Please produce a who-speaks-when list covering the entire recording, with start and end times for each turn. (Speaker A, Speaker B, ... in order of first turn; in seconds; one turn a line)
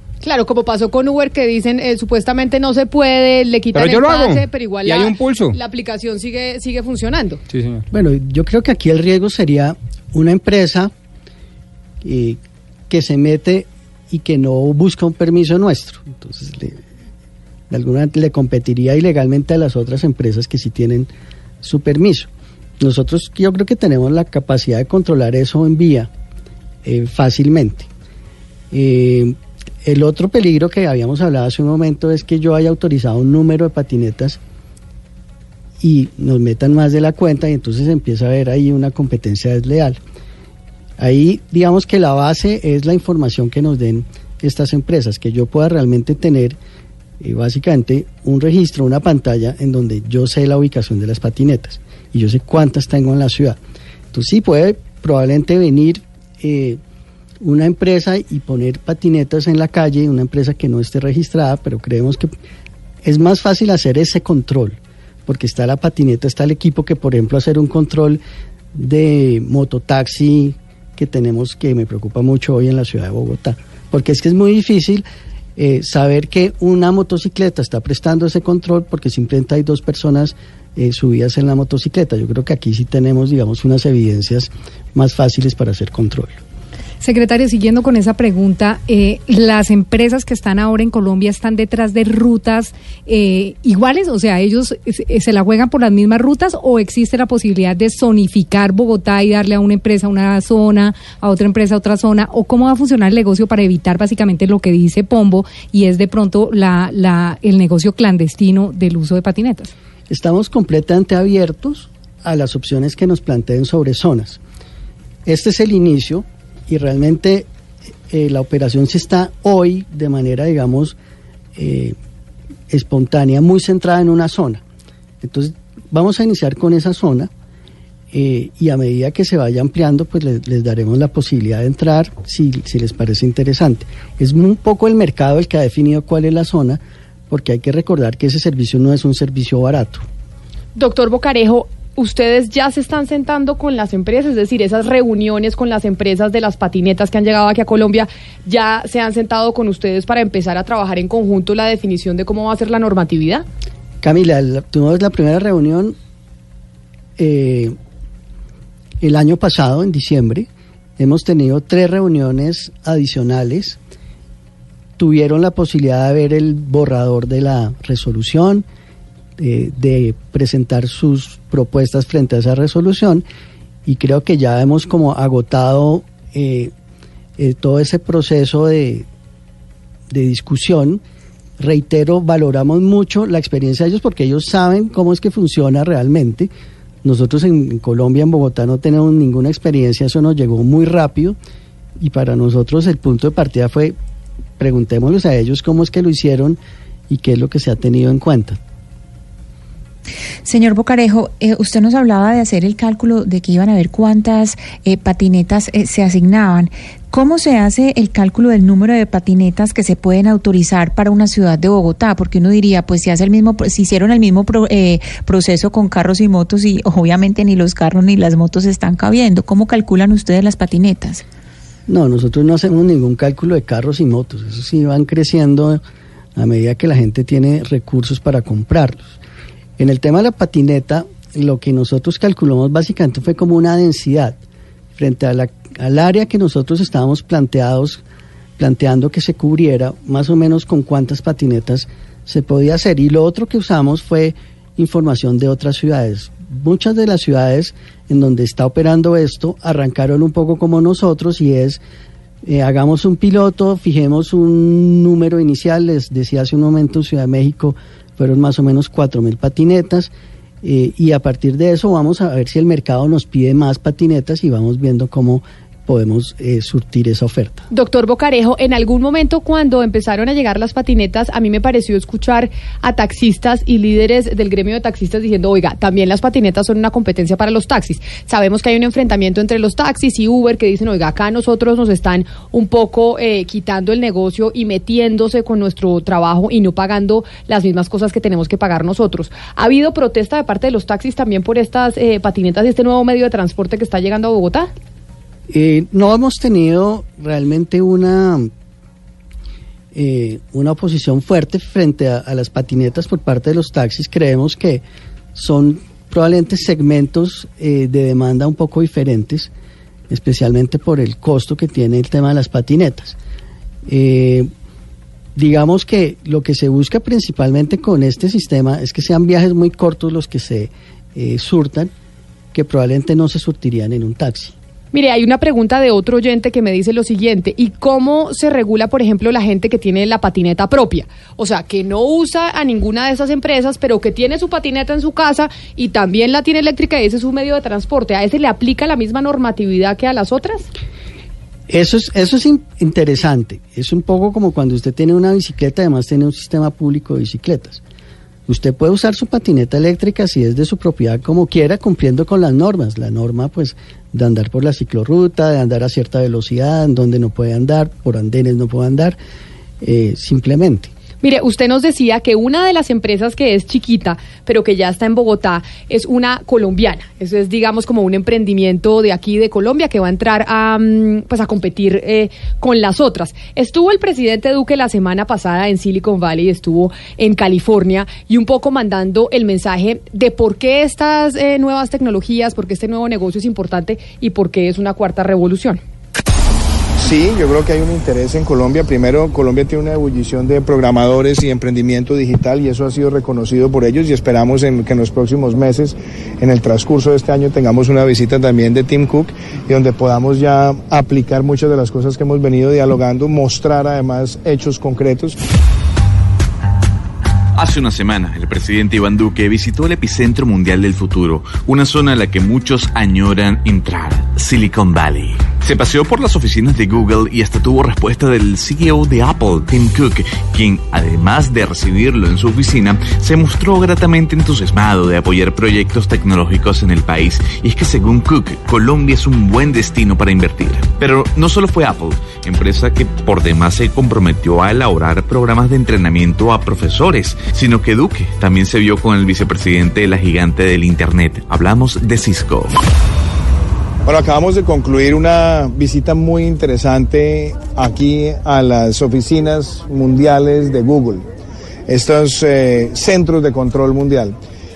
Speaker A: 0.2-7.4
Speaker B: 3.7-5.5
Speaker B: 7.5-7.8
Speaker C: 7.9-10.9
Speaker C: 12.0-16.8
Speaker C: 17.7-21.1
Speaker C: 21.6-26.1
Speaker C: 26.8-27.9
Speaker C: 28.7-34.4
Speaker C: 35.8-40.0
Speaker C: 41.0-46.6
Speaker C: 47.2-53.6
Speaker C: 54.1-56.8
Speaker C: 57.4-62.3
Speaker C: 63.0-68.2
Speaker C: 68.7-75.0
Speaker C: 75.6-86.4
Speaker D: 87.0-109.7
Speaker C: 110.1-114.4
Speaker C: 115.2-117.5
Speaker C: 118.1-121.0
Speaker C: 121.5-122.0
Speaker C: 122.7-124.6
Speaker C: 125.2-127.3
Speaker C: 128.1-140.0
Speaker A: 140.7-153.4
Speaker C: 154.0-155.9
Speaker C: 157.2-157.8
Speaker C: 159.0-163.8
Speaker C: 165.0-168.6
Speaker C: 169.4-173.2
Speaker C: 173.8-176.7
Speaker C: 177.4-179.1
Speaker C: 180.1-181.0
Speaker C: 181.6-186.5
Speaker C: 187.0-191.4
Speaker C: 192.0-193.9
Speaker C: 194.6-198.6
Speaker E: 200.4-221.2
Speaker C: 221.9-225.8
Speaker C: 226.3-229.2
Speaker C: 229.8-234.4
Speaker C: 234.9-238.0
Speaker C: 238.6-251.8
Speaker C: 252.4-260.1
Speaker C: 260.6-267.6
Speaker A: 267.7-294.7
Speaker C: 295.5-298.5
Speaker C: 299.9-304.8
Speaker C: 305.3-309.5
Speaker C: 310.1-313.2
Speaker C: 313.9-314.5
Speaker C: 315.4-321.9
Speaker C: 322.5-324.5
Speaker A: 324.9-340.7
Speaker C: 341.7-347.8
Speaker C: 348.5-359.2
Speaker C: 359.8-360.9
Speaker A: 361.2-385.8
Speaker F: 387.0-405.4
Speaker G: 407.5-442.8
Speaker F: 444.1-451.2
Speaker F: 451.9-454.4